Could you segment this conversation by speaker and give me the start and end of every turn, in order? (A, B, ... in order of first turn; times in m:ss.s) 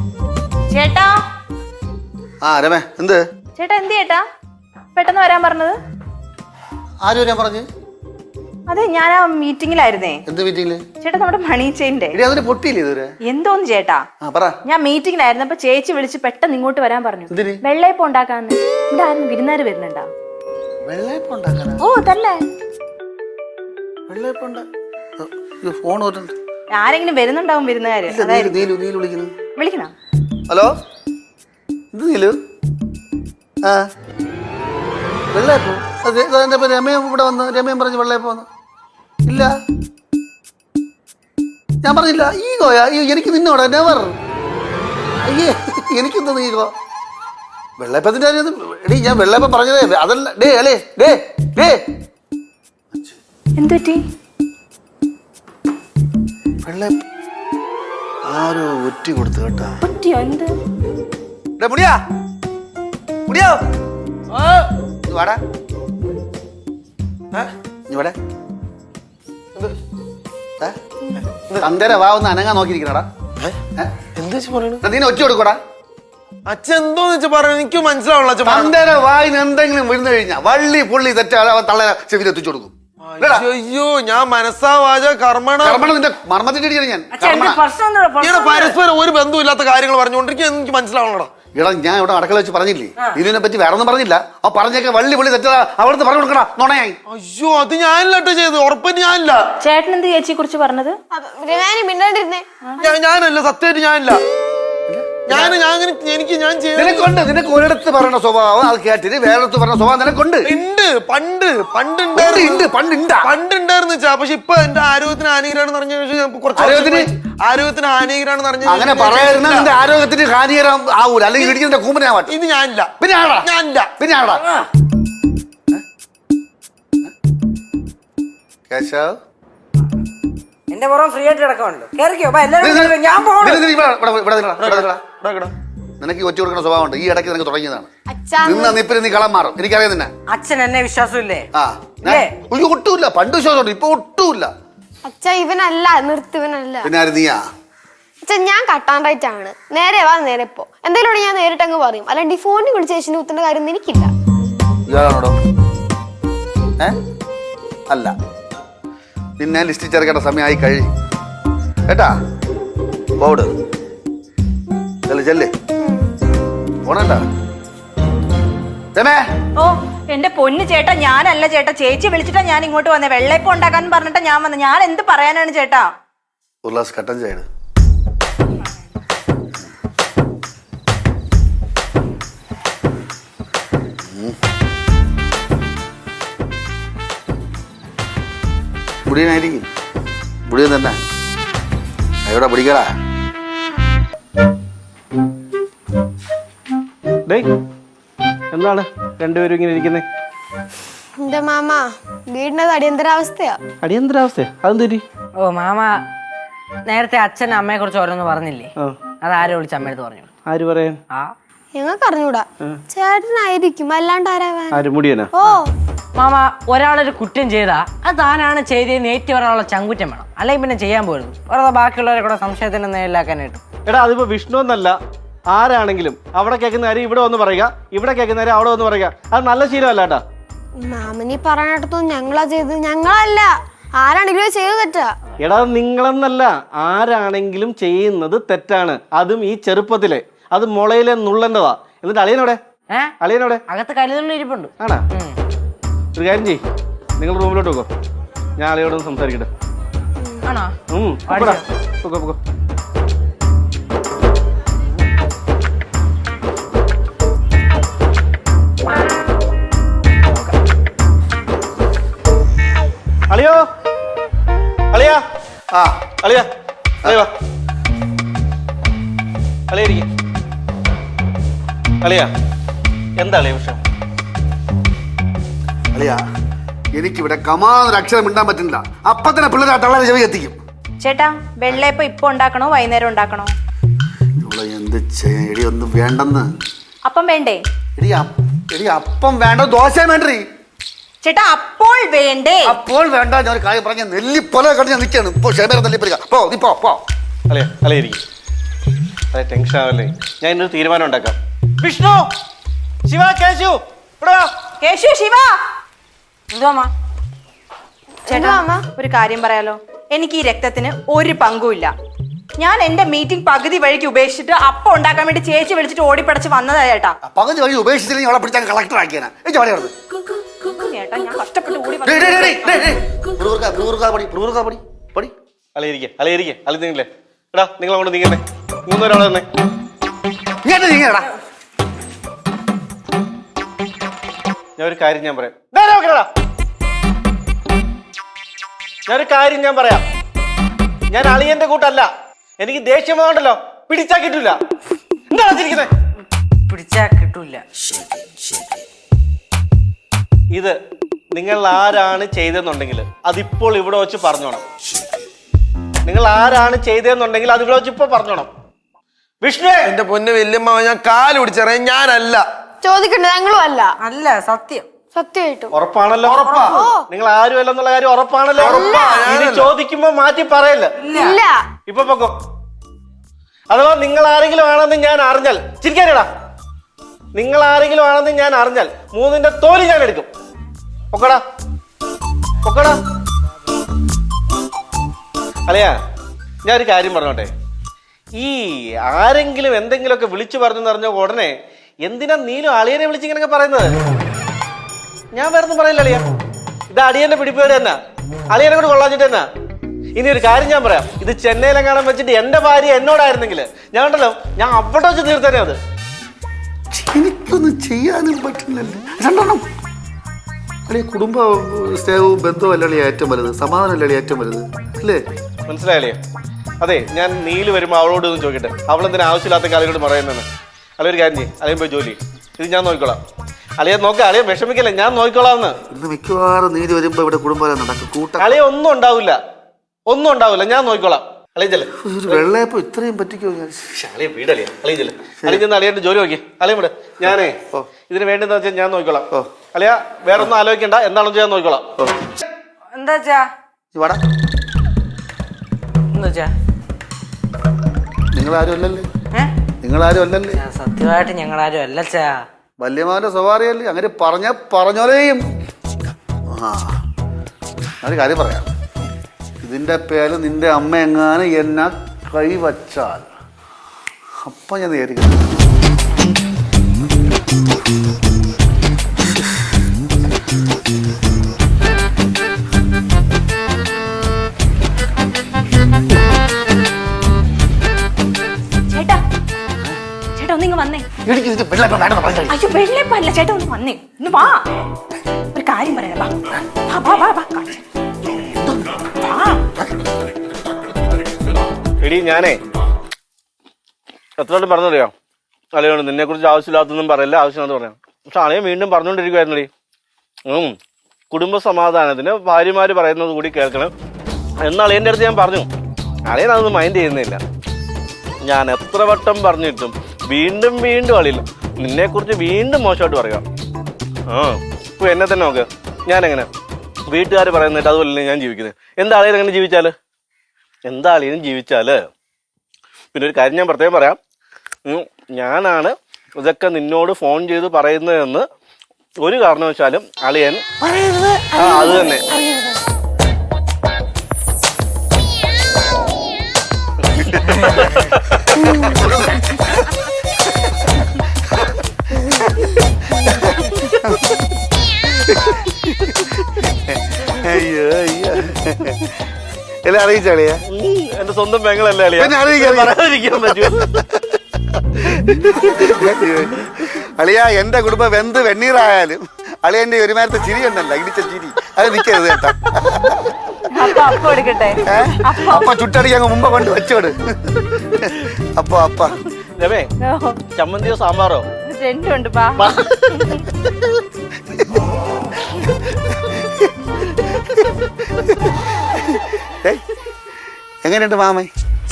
0:00.7-0:01.2 A
0:02.4-0:03.2 B
0:03.6-0:04.2 A
0:04.9-0:05.8 A
0:07.0-0:07.6 B
0:08.7-0:10.2 A
0:10.3-0:10.8 B
0:11.0-0:12.2 A
0:12.1-0:13.1 B
0:13.2-0:14.0 A
0:14.2-0:14.6 B
0:14.6-0:20.1 A
0:17.3-0:17.6 B
0:20.8-0:21.8 B
0:21.8-0:22.4 A
0:24.1-0:24.6 B
0:25.2-0:26.3 B
0:26.7-0:28.6 A
0:28.1-0:29.3 B
0:29.6-0:29.9 A
0:31.9-0:32.4 B
0:35.3-0:38.5 B
0:39.3-0:39.5 B
0:41.8-0:44.1 B
0:45.2-0:46.7 B
0:47.8-0:51.8 B
0:52.9-0:53.2 B
0:53.6-0:54.0 A
0:56.6-0:57.0 B
0:58.3-0:59.8 B
0:59.8-1:00.5 A
1:01.6-1:02.0 B
1:03.3-1:03.6 B
1:05.1-1:05.4 B
1:07.9-1:08.1 B
1:11.3-1:11.7 C
1:11.6-1:13.1 B
1:14.2-1:14.8 C
1:14.8-1:15.6 B
1:16.5-1:18.8 C
1:18.4-1:23.4 B
1:23.0-1:25.8 C
1:25.6-1:27.6 B
1:27.1-1:28.8 D
1:28.2-1:31.3 C
1:31.5-1:37.0 B
1:37.1-1:39.4 C
1:39.6-1:41.0 A
1:41.1-1:42.4 E
1:42.8-1:44.2 C
1:44.9-1:45.6 B
1:45.3-1:47.1 C
1:46.8-1:50.5 B
1:50.4-1:52.7 C
1:52.1-1:53.3 B
1:53.2-1:59.7 C
1:56.6-1:57.1 B
1:58.6-2:02.3 B
2:02.3-2:02.9 C
2:03.0-2:04.4 B
2:03.4-2:03.9 C
2:04.4-2:04.7 D
2:08.7-2:09.2 B
2:10.7-2:13.6 D
2:12.6-2:15.0 B
2:14.6-2:15.5 C
2:16.0-2:17.9 B
2:18.1-2:18.8 E
2:18.4-2:20.1 B
2:20.3-2:21.5 D
2:21.5-2:24.5 B
2:22.0-2:22.3 D
2:25.0-2:26.9 E
2:26.8-2:27.4 B
2:28.2-2:34.1 E
2:34.9-2:35.4 B
2:39.4-2:40.9 B
2:43.2-2:43.5 B
2:45.0-2:45.5 B
2:45.8-2:46.1 E
2:46.8-2:47.2 B
2:49.6-2:55.9 A
2:56.6-2:57.4 B
3:04.0-3:04.3 B
3:09.1-3:09.6 B
3:10.5-3:11.0 B
3:12.2-3:12.9 B
3:18.5-3:20.0 F
3:21.2-3:23.6 E
3:23.8-3:25.0 F
3:25.4-3:26.0 D
3:26.9-3:30.3 D
3:30.5-3:31.0 F
3:31.7-3:34.8 E
3:34.7-3:35.3 F
3:35.4-3:35.7 E
3:36.2-3:43.6 D
3:43.9-3:45.0 F
3:45.5-3:50.2 F
3:50.8-3:55.1 E
3:55.4-4:02.6 F
4:03.2-4:03.6 F
4:03.7-4:05.4 D
4:06.2-4:06.6 F
4:07.2-4:07.9 F
4:08.6-4:09.5 F
4:10.4-4:10.7 D
4:10.9-4:12.4 F
4:11.3-4:11.6 D
4:23.3-4:23.6 F
4:24.9-4:25.2 F
4:25.7-4:26.0 B
4:26.2-4:26.5 F
4:27.0-4:27.3 F
4:29.7-4:30.1 F
4:32.0-4:32.3 F
4:33.2-4:33.8 F
4:35.9-4:36.2 B
4:37.0-4:40.6 B
4:41.0-4:43.5 A
4:44.4-4:46.5 B
4:47.0-4:47.6 A
4:48.0-4:50.4 B
4:51.2-4:52.7 A
4:52.6-4:57.0 B
4:57.5-4:58.2 F
4:59.3-5:02.3 F
5:03.1-5:04.5 F
5:04.8-5:05.6 A
5:06.5-5:06.9 D
5:08.3-5:08.8 E
5:08.3-5:11.9 A
5:12.6-5:17.2 A
5:17.2-5:19.9 B
5:20.6-5:22.8 A
5:22.0-5:25.3 B
5:25.7-5:29.4 F
5:30.6-5:31.3 B
5:34.8-5:36.3 F
5:39.1-5:40.0 F
5:41.1-5:44.6 F
5:45.3-5:45.9 F
5:46.7-5:48.6 D
5:51.3-5:54.6 F
5:56.0-5:58.5 F
5:59.4-5:59.9 F
5:59.8-6:02.4 C
6:02.8-6:03.9 E
6:04.0-6:04.9 D
6:05.1-6:05.7 E
6:05.7-6:10.9 F
6:06.2-6:06.8 C
6:06.4-6:06.7 D
6:06.6-6:07.0 E
6:08.6-6:09.7 C
6:08.6-6:09.3 E
6:11.0-6:11.4 D
6:11.1-6:11.6 E
6:11.9-6:12.3 F
6:13.7-6:16.3 F
6:17.3-6:20.3 F
6:21.1-6:21.4 F
6:22.6-6:23.0 F
6:25.7-6:25.9 F
6:26.6-6:27.5 F
6:28.4-6:31.5 F
6:32.0-6:34.0 F
6:35.3-6:36.2 F
6:36.9-6:38.0 F
6:38.5-6:39.4 F
6:40.2-6:45.8 F
6:46.9-6:49.6 B
6:50.9-6:55.2 B
6:55.7-6:56.2 F
6:56.8-7:00.4 F
7:01.0-7:03.2 F
7:03.8-7:05.8 F
7:05.9-7:08.5 B
7:08.4-7:09.4 F
7:10.1-7:12.4 F
7:12.0-7:14.0 B
7:14.0-7:17.6 F
7:17.2-7:17.9 B
7:18.1-7:21.9 F
7:22.9-7:23.5 D
7:23.9-7:24.2 B
7:26.1-7:26.5 D
7:28.3-7:29.0 B
7:29.8-7:30.6 B
7:30.6-7:32.4 D
7:32.8-7:35.4 B
7:36.5-7:36.9 B
7:38.0-7:38.7 B
7:39.6-7:43.3 B
7:44.4-7:45.6 B
7:58.9-7:59.2 A
8:00.3-8:01.0 A
8:01.2-8:02.6 B
8:02.5-8:04.6 A
8:05.5-8:06.3 A
8:06.9-8:07.8 A
8:08.3-8:09.0 B
8:09.2-8:09.6 A
8:12.0-8:12.6 F
8:14.4-8:15.1 F
8:15.7-8:19.7 F
8:20.5-8:20.7 F
8:21.3-8:23.9 F
8:24.6-8:25.7 F
8:26.3-8:27.4 F
8:28.4-8:33.4 F
8:34.3-8:36.5 F
8:37.1-8:39.9 F
8:40.9-8:42.0 F
8:43.1-8:44.2 F
8:44.8-8:48.4 F
8:49.2-8:50.6 F
8:50.9-8:51.2 C
8:51.3-8:51.7 D
8:51.5-8:52.2 F
8:57.5-8:58.4 F
8:58.8-8:59.4 B
9:00.6-9:01.7 B
9:02.4-9:04.3 B
9:05.3-9:09.1 B
9:09.8-9:10.6 B
9:10.7-9:13.9 F
9:12.2-9:13.0 B
9:13.5-9:14.0 B
9:15.0-9:23.2 B
9:15.3-9:16.0 F
9:23.7-9:25.7 A
9:24.9-9:29.2 B
9:29.6-9:29.9 F
9:30.0-9:30.4 A
9:30.5-9:31.5 F
9:31.6-9:33.4 A
9:32.6-9:32.9 B
9:34.5-9:34.8 B
9:35.8-9:39.8 B
9:40.8-9:41.5 B